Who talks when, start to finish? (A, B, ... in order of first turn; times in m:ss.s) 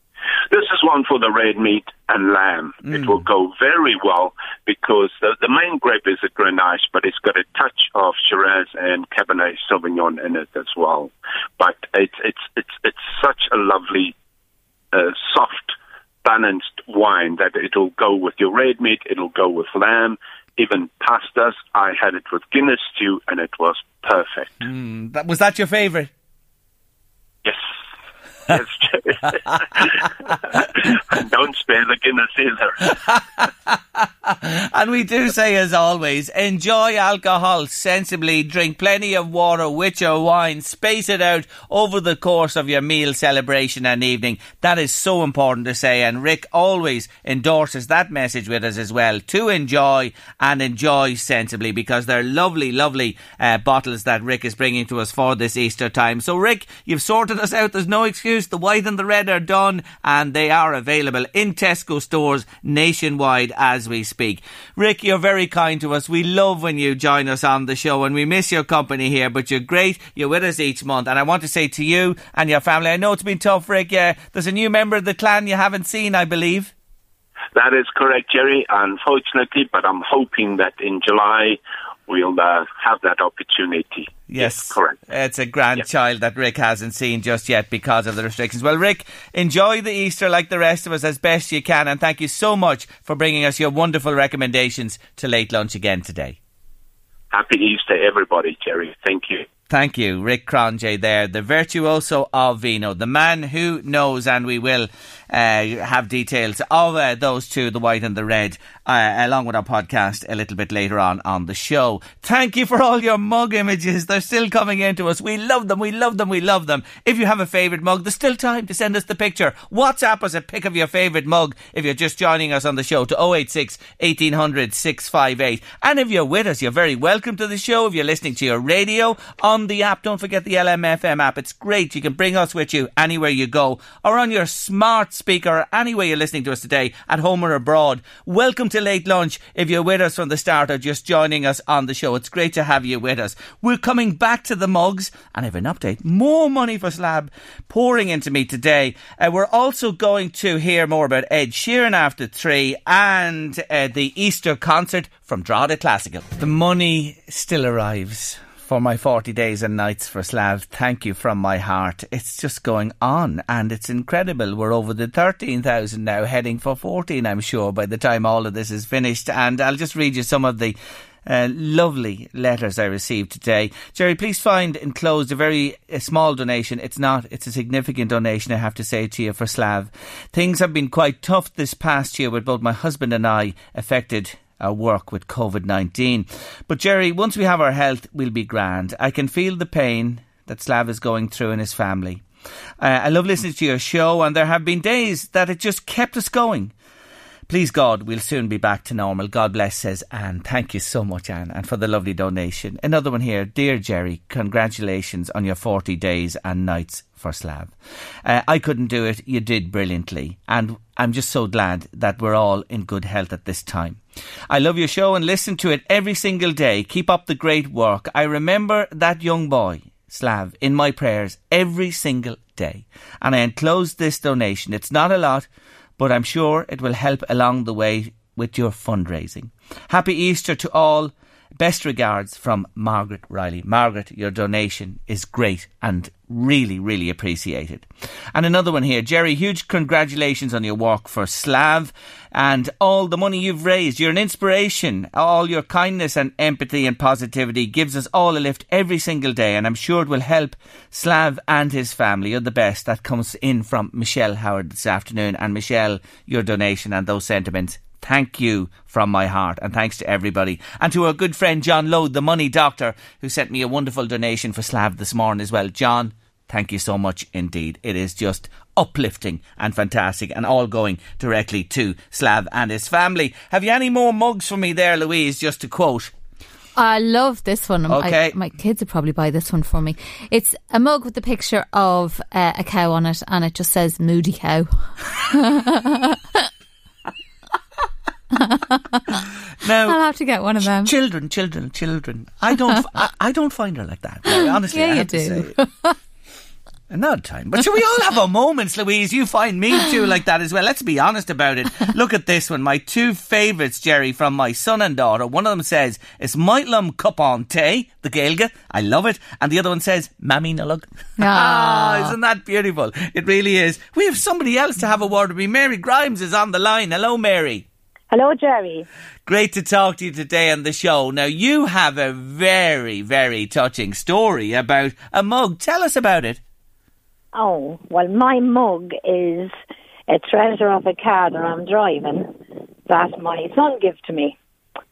0:00.5-0:14.2 A
0:02.9-0:03.2 B
0:14.9-0:24.6 A
0:24.6-0:26.1 B
0:28.5-0:33.0 A
0:33.0-1:16.7 B
1:17.5-1:25.0 A
1:24.3-1:36.4 B
1:37.3-1:39.5 A
1:39.7-3:12.2 B
3:12.8-3:16.7 B
3:17.5-3:27.7 B
3:28.2-3:45.5 B
3:46.0-4:36.1 B
4:36.8-4:46.5 C
4:37.9-4:38.4 B
4:48.3-4:49.2 C
4:49.6-4:50.0 B
4:49.9-4:50.9 C
4:50.8-4:55.5 B
4:54.3-4:56.0 C
4:56.9-5:17.7 B
5:11.2-5:12.1 C
5:18.1-5:18.9 D
5:19.3-5:26.4 B
5:27.3-5:29.5 D
5:30.1-5:32.3 D
5:32.9-5:34.4 D